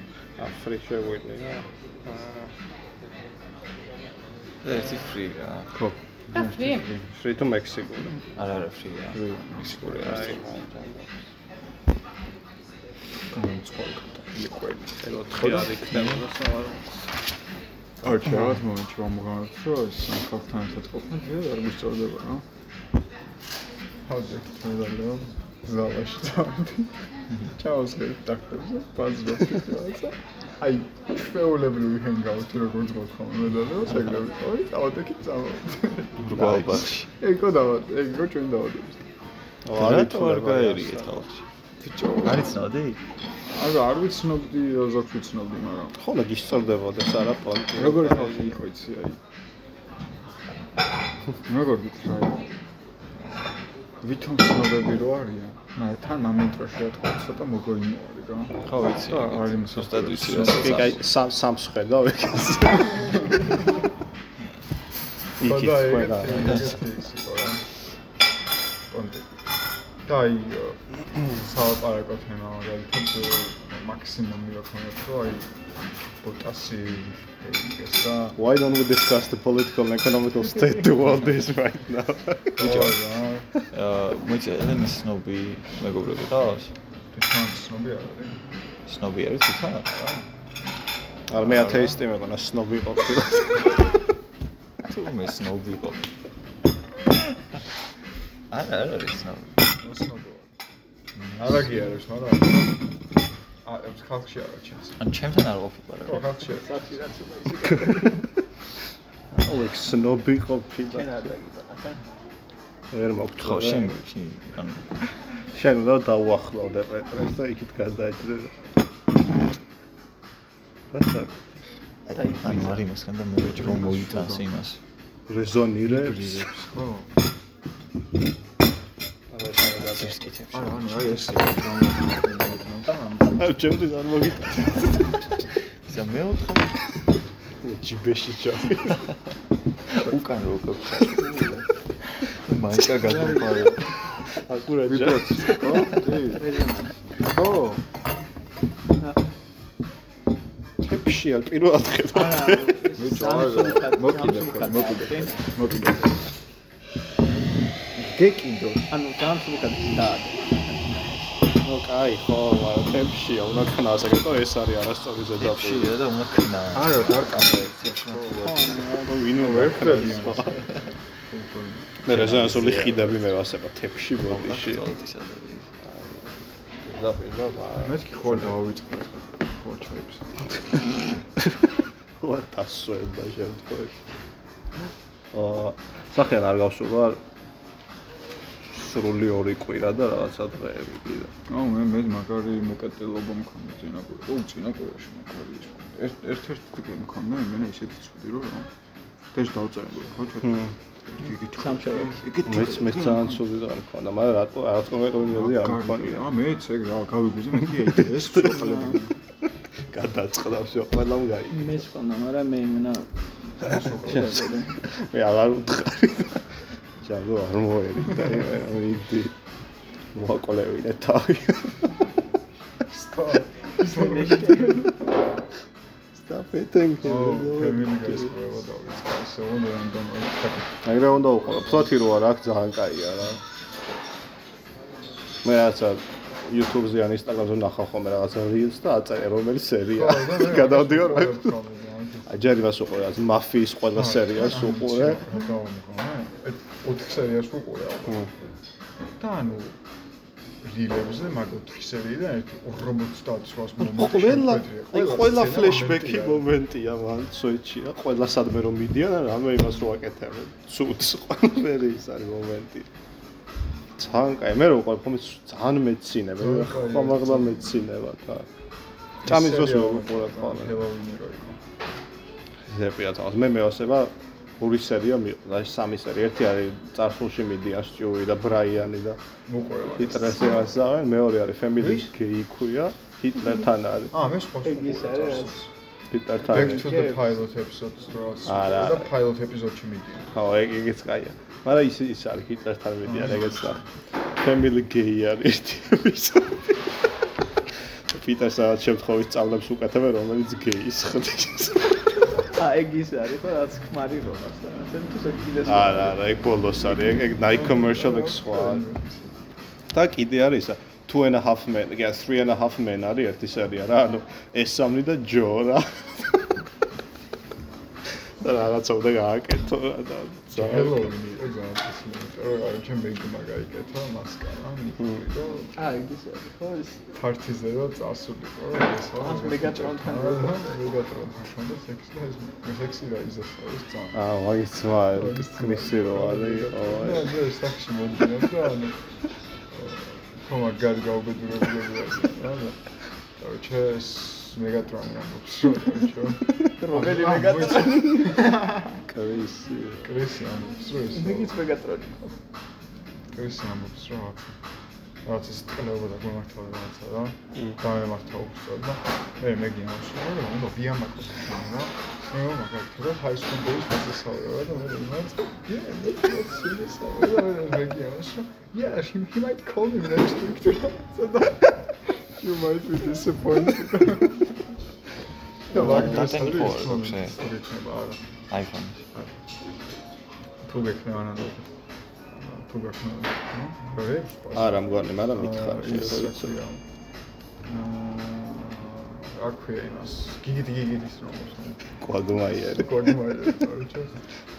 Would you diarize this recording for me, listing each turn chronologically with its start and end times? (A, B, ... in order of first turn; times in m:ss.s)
0:00.4-0:02.5 A
0:04.6-0:05.7 B
0:05.7-0:07.1 C
0:07.1-0:08.2 A
0:08.3-0:09.2 B
0:09.1-0:10.4 C
0:09.8-0:11.1 A
0:13.3-0:16.2 C
0:15.0-0:16.9 A
0:18.0-0:22.4 C
0:24.0-0:36.3 C
0:36.2-0:37.1 B
0:36.3-0:36.9 A
0:37.1-0:39.0 C
0:39.6-0:41.2 A
0:39.7-0:41.4 B
0:41.8-0:42.5 C
0:42.2-0:43.0 B
0:43.5-0:46.0 C
0:46.0-0:48.5 A
0:47.7-0:49.2 C
0:51.4-0:52.4 C
0:54.0-1:01.0 C
0:58.6-1:01.0 B
1:00.5-1:03.4 A
1:05.4-1:06.8 A
1:05.4-1:07.6 C
1:06.3-1:06.7 B
1:08.9-1:09.4 C
1:10.0-1:15.5 C
1:16.2-1:18.4 C
1:18.4-1:22.9 A
1:22.6-1:23.5 C
1:22.6-1:23.0 B
1:23.7-1:26.7 B
1:27.1-1:28.4 C
1:28.8-1:29.9 B
1:29.9-1:30.2 C
1:31.3-1:33.9 A
1:31.3-1:32.0 B
1:34.8-1:36.0 B
1:38.5-1:39.6 B
1:39.8-1:40.5 C
1:41.2-1:42.8 C
1:43.6-1:45.0 C
1:45.0-1:46.2 B
1:46.0-1:46.7 C
1:46.5-1:48.2 D
1:47.6-1:48.2 A
1:49.3-1:51.2 A
1:50.9-1:52.0 D
1:52.9-1:54.0 A
1:53.4-1:55.1 B
1:55.5-1:58.6 A
2:00.9-2:01.3 A
2:02.1-2:04.8 B
2:03.4-2:04.4 C
2:05.3-2:06.5 A
2:05.8-2:07.1 C
2:09.3-2:10.3 A
2:09.6-2:11.4 B
2:10.5-2:13.4 C
2:13.4-2:15.4 A
2:15.8-2:16.8 B
2:17.6-2:19.0 A
2:19.9-2:21.3 B
2:22.3-2:23.9 B
2:24.4-2:25.9 A
2:24.8-2:26.4 C
2:26.2-2:27.0 D
2:27.2-2:27.8 C
2:30.8-2:32.8 A
2:32.1-2:35.4 D
2:32.9-2:36.2 C
2:38.9-2:40.7 D
2:41.6-2:45.9 A
2:45.4-2:48.9 B
2:46.8-2:48.0 C
2:48.4-2:49.3 D
2:49.0-2:50.7 A
2:49.4-2:50.6 C
2:51.3-2:51.9 C
2:52.0-2:54.8 A
2:52.0-2:53.2 B
2:54.3-2:55.7 B
2:55.8-2:56.3 A
2:56.8-2:58.5 A
2:57.8-3:00.3 C
3:00.6-3:04.0 A
3:05.3-3:07.2 A
3:08.7-3:11.3 A
3:11.5-3:18.7 C
3:19.3-3:20.6 C
3:20.4-3:20.7 A
3:21.1-3:23.3 C
3:21.6-3:22.9 D
3:22.4-3:26.2 A
3:25.3-3:29.2 C
3:28.0-3:28.8 A
3:28.4-3:29.0 D
3:29.9-3:31.8 A
3:31.5-3:33.1 D
3:33.6-3:34.5 C
3:33.7-3:39.3 A
3:34.0-3:34.7 D
3:40.1-3:42.0 A
3:42.9-3:44.9 C
3:43.8-3:44.9 D
3:46.2-3:48.3 A
3:47.0-3:50.8 C
3:50.8-3:53.4 A
3:55.4-4:01.5 A
3:59.9-4:02.5 C
4:02.3-4:05.2 A
4:03.9-4:08.2 C
4:09.2-4:09.8 C
4:10.6-4:16.4 C
4:13.8-4:22.9 A
4:24.0-4:28.5 A
4:26.4-4:27.7 C
4:29.2-4:30.8 A
4:29.2-4:31.6 C
4:32.7-4:39.2 A
4:39.5-4:40.7 C
4:39.9-4:44.1 A
4:41.8-4:42.1 C
4:44.1-4:45.7 C
4:44.6-4:45.6 D
4:46.1-4:46.9 A
4:46.4-4:50.3 C
4:46.5-4:47.3 D
4:48.4-4:49.1 A
4:50.3-4:57.0 A
4:53.0-4:53.6 C
4:58.1-5:02.1 A
5:02.5-5:06.2 D
5:05.6-5:08.8 A
5:07.4-5:09.3 C
5:09.9-5:16.5 A
5:18.4-5:21.1 A
5:20.5-5:25.7 C
5:25.8-5:27.0 D
5:27.1-5:34.2 C
5:29.2-5:30.8 D
5:34.1-5:37.4 A
5:35.1-5:39.1 C
5:39.7-5:48.8 C
5:46.8-5:48.6 D
5:49.0-5:50.1 A
5:50.0-5:51.6 C
5:51.1-5:52.3 D
5:53.3-5:54.5 C
5:55.2-6:14.4 C
6:15.7-6:18.2 C
6:15.7-6:16.0 A
6:15.7-6:17.4 B
6:18.5-6:19.0 B
6:20.6-6:21.7 C
6:22.3-6:26.8 C
6:24.5-6:26.5 A
6:27.6-6:31.8 C
6:32.0-6:33.5 A
6:32.7-6:34.3 C